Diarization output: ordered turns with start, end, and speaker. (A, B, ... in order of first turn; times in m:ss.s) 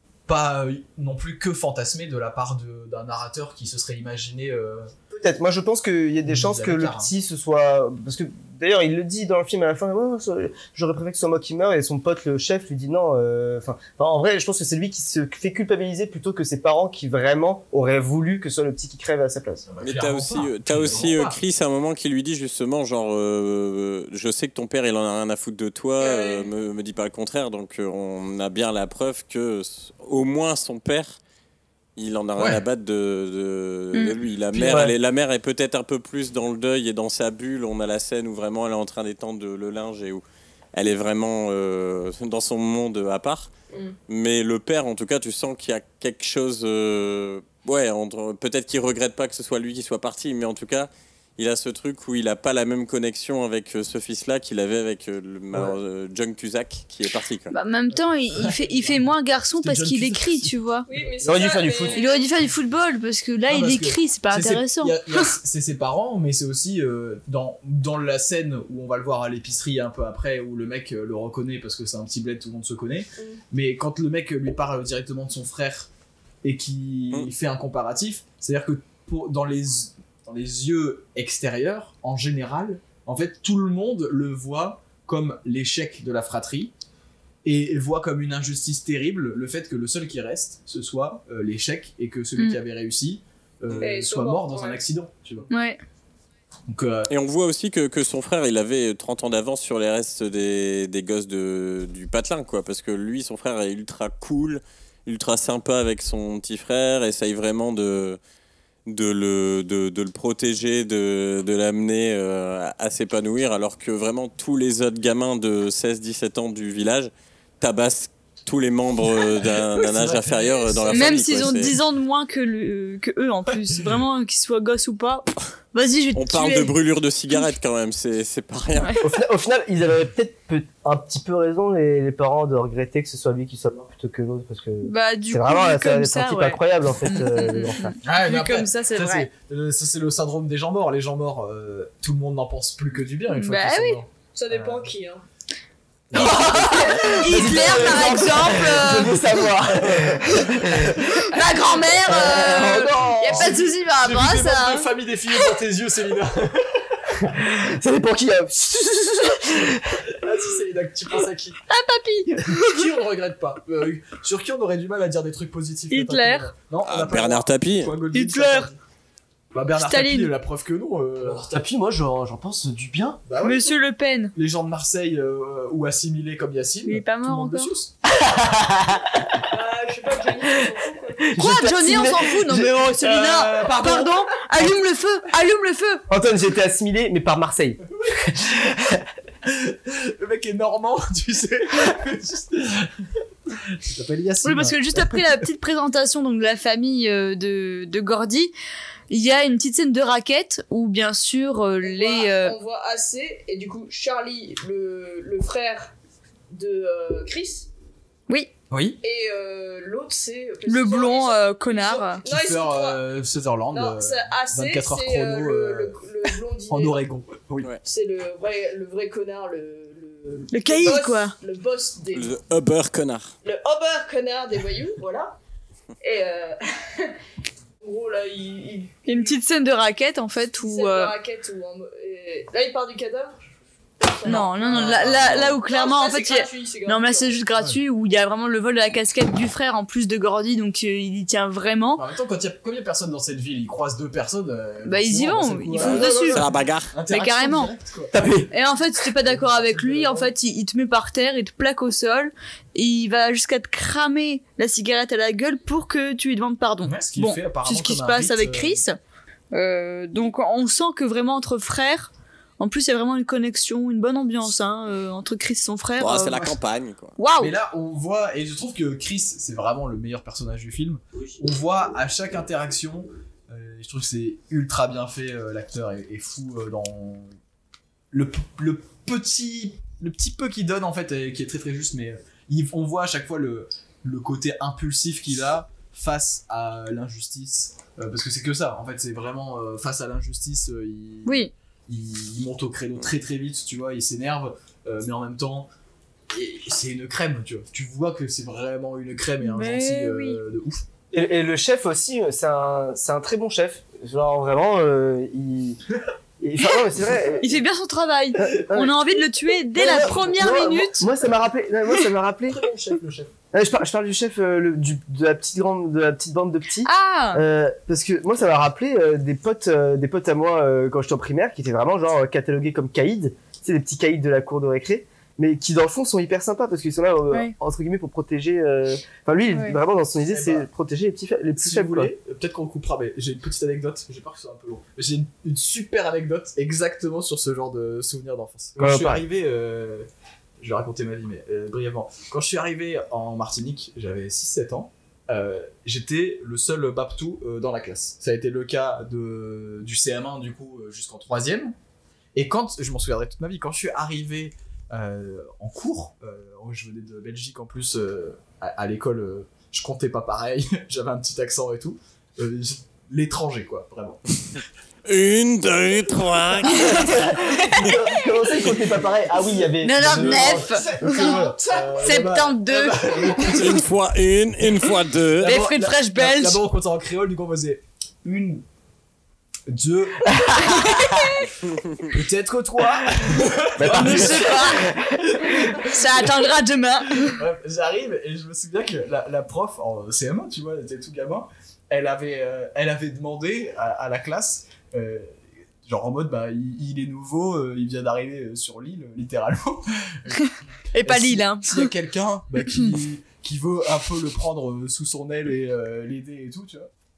0:00.3-0:04.9 A
0:05.1-0:19.7 B
0:06.3-0:07.1 A
0:19.7-0:21.4 A
0:19.8-0:31.2 C
0:26.0-0:26.5 D
0:32.0-0:40.2 C
0:34.5-0:34.9 B
0:40.7-0:43.5 C
0:44.1-0:57.5 C
0:57.5-1:00.9 E
0:58.4-0:59.0 A
0:59.6-1:01.1 A
1:00.9-1:02.3 D
1:01.2-1:02.0 B
1:01.9-1:05.3 E
1:03.5-1:15.9 A
1:16.4-1:26.7 A
1:27.4-1:35.5 A
1:33.8-1:34.8 D
1:35.5-1:35.8 E
1:36.7-1:37.1 A
1:37.1-1:48.2 C
1:48.9-2:01.8 C
1:59.2-2:01.4 A
2:00.9-2:06.7 E
2:06.2-2:09.1 C
2:09.0-2:18.0 B
2:14.8-2:19.3 E
2:18.0-2:24.1 A
2:23.3-2:24.0 E
2:24.2-2:25.2 D
2:26.1-2:27.8 A
2:26.1-2:31.4 B
2:26.2-2:29.4 E
2:29.8-2:32.8 A
2:31.1-2:34.9 E
2:31.9-2:33.7 B
2:33.3-2:37.1 A
2:37.2-2:40.1 B
2:40.1-2:41.6 A
2:41.7-2:42.9 E
2:42.4-2:48.8 A
2:45.9-2:46.5 E
2:46.8-2:48.0 C
2:48.1-2:48.7 E
2:49.5-2:51.5 A
2:49.8-2:50.3 E
2:51.2-2:53.2 B
2:53.3-2:53.7 A
2:53.4-2:54.3 E
2:54.3-2:57.9 A
2:56.8-2:57.7 E
2:58.0-2:59.4 B
2:59.5-3:01.3 D
3:01.3-3:02.8 B
3:01.3-3:06.0 E
3:02.9-3:04.6 A
3:06.1-3:09.0 B
3:08.1-3:08.4 A
3:09.4-3:15.2 A
3:14.4-3:18.5 E
3:19.1-3:22.6 E
3:21.8-3:25.9 D
3:26.5-3:27.7 D
3:28.7-3:29.0 A
3:29.0-3:33.0 D
3:30.7-3:32.2 E
3:32.2-3:36.0 A
3:33.7-3:37.0 D
3:36.7-3:37.7 A
3:37.8-3:42.3 D
3:40.5-3:41.4 E
3:42.1-3:43.3 C
3:43.4-3:45.4 D
3:46.0-3:47.2 D
3:47.8-3:49.3 D
3:49.0-3:51.1 E
3:50.6-3:53.5 D
3:54.0-3:57.4 D
3:54.2-4:02.0 E
3:54.3-3:55.6 A
4:02.0-4:08.2 A
4:04.8-4:06.5 E
4:05.8-4:06.9 C
4:07.1-4:07.7 E
4:08.1-4:08.5 B
4:08.5-4:19.0 E
4:09.2-4:10.3 A
4:16.8-4:18.8 A
4:19.5-4:26.5 E
4:26.0-4:27.2 C
4:27.2-4:27.5 E
4:27.4-4:37.3 A
4:38.1-4:55.7 A
4:51.3-4:51.5 E
4:56.3-5:00.8 A
4:59.4-5:00.4 E
5:01.1-5:05.8 B
5:06.4-5:07.6 B
5:07.4-5:11.1 E
5:08.4-5:09.1 B
5:09.7-5:12.6 B
5:12.5-5:13.3 A
5:13.5-5:32.1 B
5:16.8-5:17.4 E
5:29.5-5:29.8 E
5:30.3-5:30.7 A
5:31.6-5:40.1 A
5:38.8-5:39.3 B
5:40.6-5:51.8 A
5:52.4-6:04.6 A
6:05.1-6:07.9 C
6:06.7-6:11.4 B
6:06.8-6:07.7 E
6:09.8-6:11.4 E
6:10.0-6:13.9 A
6:10.8-6:12.2 D
6:12.0-6:13.8 E
6:13.4-6:15.6 C
6:15.4-6:18.6 A
6:15.4-6:16.6 E
6:19.7-6:21.2 A
6:20.3-6:21.2 B
6:22.0-6:26.3 A
6:23.8-6:25.6 B
6:23.8-6:24.9 E
6:25.8-6:27.4 E
6:27.1-6:40.5 A
6:40.4-6:41.9 E
6:41.0-6:46.9 A